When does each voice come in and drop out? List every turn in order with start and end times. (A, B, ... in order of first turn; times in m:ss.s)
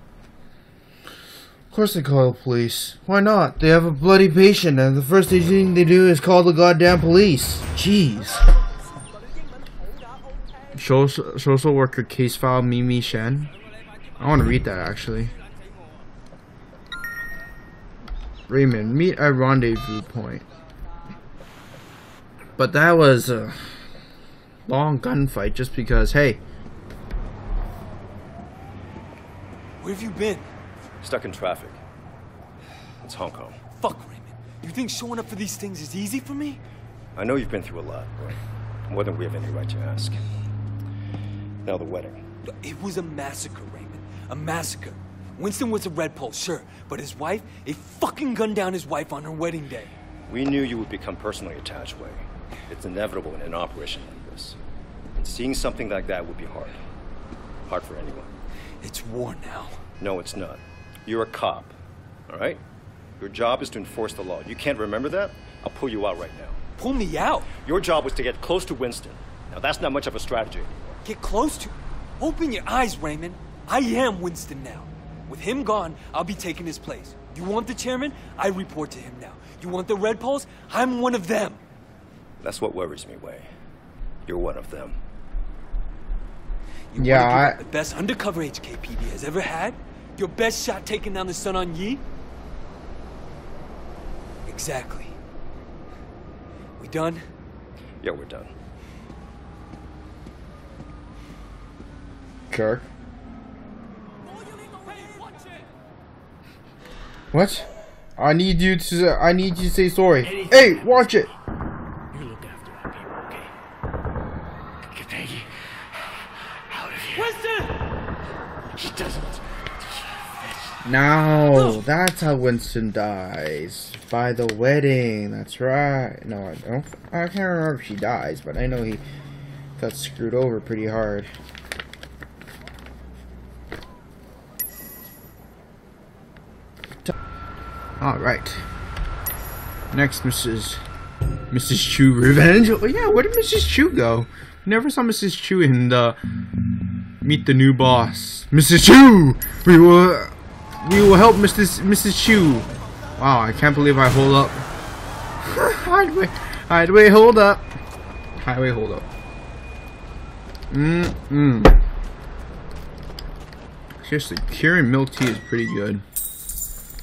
0:01.7-0:08.4 A
0:10.8-0:13.5 A
0:14.2-0:15.3 A
0:18.5-0:20.4 A
0:22.6-0:23.8 A
0:24.7-0:26.4 A
0:29.8-0:30.5 B
0:31.0-0:31.8 C
0:33.0-0:33.6 C
0:33.8-0:36.6 B
0:37.2-0:40.2 C
0:41.6-0:42.2 C
0:42.6-0:49.9 B
0:50.3-0:54.6 C
0:55.2-0:56.8 C
0:57.7-0:58.4 C
0:58.8-0:59.8 B
1:00.0-1:01.7 C
1:02.3-1:02.6 C
1:03.2-1:06.6 C
1:06.8-1:07.5 B
1:07.6-1:10.8 C
1:11.0-1:21.6 B
1:22.4-1:23.5 C
1:24.2-1:25.0 C
1:26.9-1:32.0 B
1:27.0-1:27.6 A
1:34.5-1:35.2 B
1:36.8-1:37.2 B
1:38.0-1:38.5 C
1:42.5-1:42.8 A
1:47.3-1:51.3 A
1:50.2-1:51.0 D
1:52.1-1:53.5 D
1:54.9-1:55.5 D
1:56.7-1:57.3 D
1:57.1-1:57.7 B
1:58.8-2:00.7 D
2:00.8-2:09.0 A
2:09.8-2:11.3 A
2:18.0-2:18.6 A
2:19.9-2:20.8 A
2:21.5-2:26.2 A
2:27.2-2:34.6 A
2:35.4-2:37.6 A
2:38.4-2:39.0 A
2:40.7-2:41.8 A
2:44.0-2:46.0 A